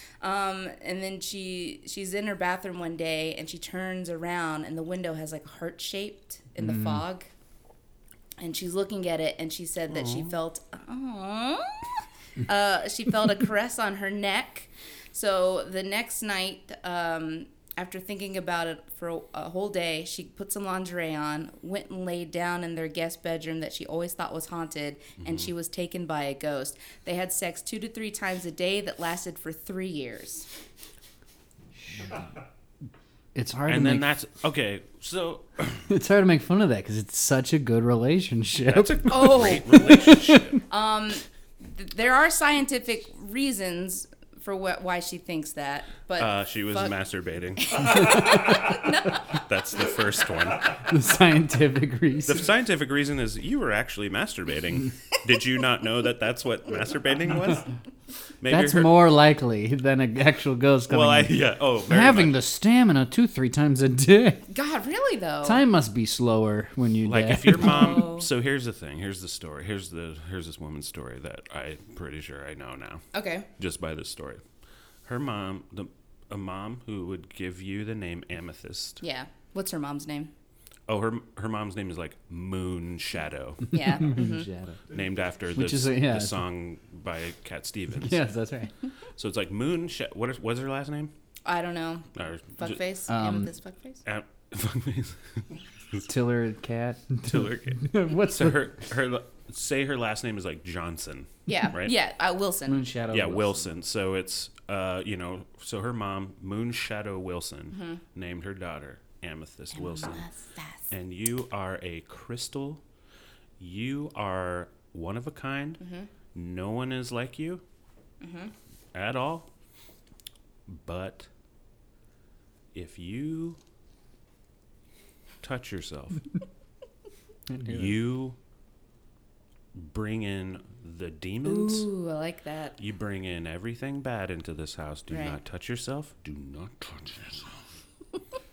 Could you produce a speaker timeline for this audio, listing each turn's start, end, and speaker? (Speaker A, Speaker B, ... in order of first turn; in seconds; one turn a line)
Speaker A: 0.2-7.3
Speaker B: 6.6-7.0
Speaker A: 8.4-30.5
Speaker C: 9.9-10.3
Speaker C: 25.2-25.5
Speaker B: 31.8-32.2
Speaker B: 33.3-34.0
Speaker C: 33.7-35.9
Speaker B: 35.9-40.6
Speaker C: 38.6-40.6
Speaker A: 39.1-40.1
Speaker A: 40.6-46.9
Speaker C: 46.2-48.3
Speaker A: 47.6-49.2
Speaker B: 47.8-48.8
Speaker C: 49.3-50.8
Speaker B: 50.8-52.5
Speaker C: 52.2-57.7
Speaker C: 58.4-59.0
Speaker B: 58.5-64.4
Speaker C: 60.9-62.4
Speaker A: 64.5-65.6
Speaker B: 65.4-68.0
Speaker C: 67.0-73.0
Speaker A: 67.6-68.3
Speaker A: 73.1-73.5
Speaker C: 73.6-74.4
Speaker C: 75.0-79.0
Speaker A: 79.0-80.3
Speaker C: 80.9-83.8
Speaker A: 83.7-84.5
Speaker B: 83.8-84.9
Speaker C: 84.9-88.2
Speaker B: 85.5-86.4
Speaker B: 88.0-88.7
Speaker C: 89.2-91.1
Speaker A: 91.4-92.1
Speaker C: 92.1-92.8
Speaker A: 92.6-94.0
Speaker B: 93.1-93.5
Speaker C: 94.0-96.0
Speaker B: 96.1-98.8
Speaker C: 97.2-101.9
Speaker A: 101.5-102.8
Speaker B: 102.7-103.7
Speaker C: 103.1-110.2
Speaker A: 107.7-108.0
Speaker A: 109.7-110.8
Speaker C: 110.9-112.8
Speaker C: 113.6-115.8
Speaker A: 115.8-116.1
Speaker C: 116.3-117.6
Speaker A: 118.2-118.5
Speaker C: 118.9-119.5
Speaker C: 120.7-121.3
Speaker C: 122.7-123.6
Speaker C: 125.4-126.3
Speaker B: 127.5-128.0
Speaker C: 127.7-128.3
Speaker C: 129.7-131.9
Speaker A: 131.4-132.8
Speaker C: 132.8-137.6
Speaker A: 135.1-135.4